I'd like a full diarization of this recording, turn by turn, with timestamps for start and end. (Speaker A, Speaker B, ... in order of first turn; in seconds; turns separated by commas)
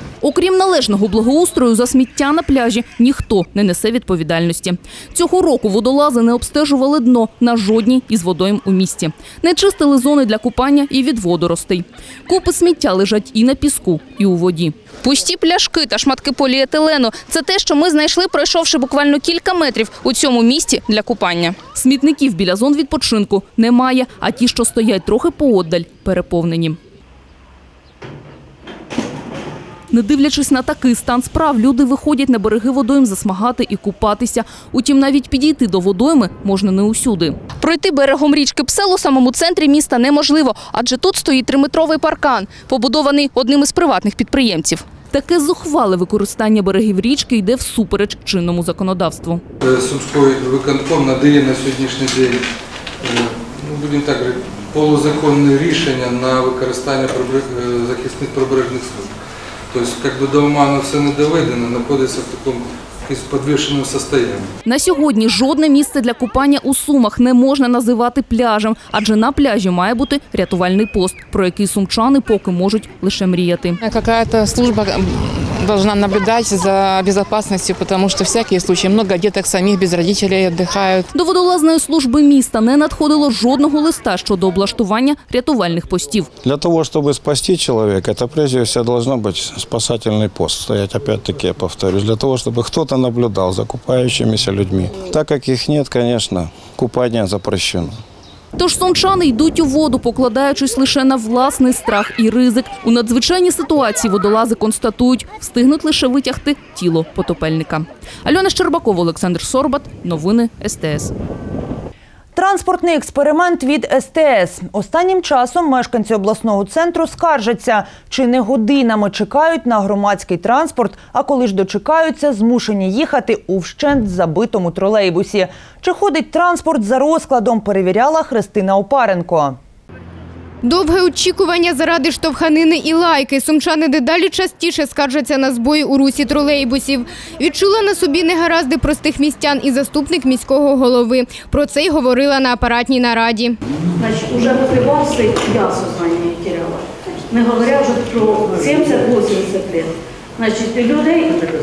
Speaker A: 0.2-26.8, Speaker A: 29.9-49.4, Speaker B: 49.6-52.4, Speaker B: 53.0-59.1, Speaker B: 59.7-64.5, Speaker A: 64.7-73.8, Speaker C: 73.8-81.1, Speaker A: 81.1-86.3, Speaker D: 86.4-98.0, Speaker A: 98.6-111.1, Speaker E: 112.3-129.6, Speaker F: 130.6-143.6, Speaker G: 144.0-151.4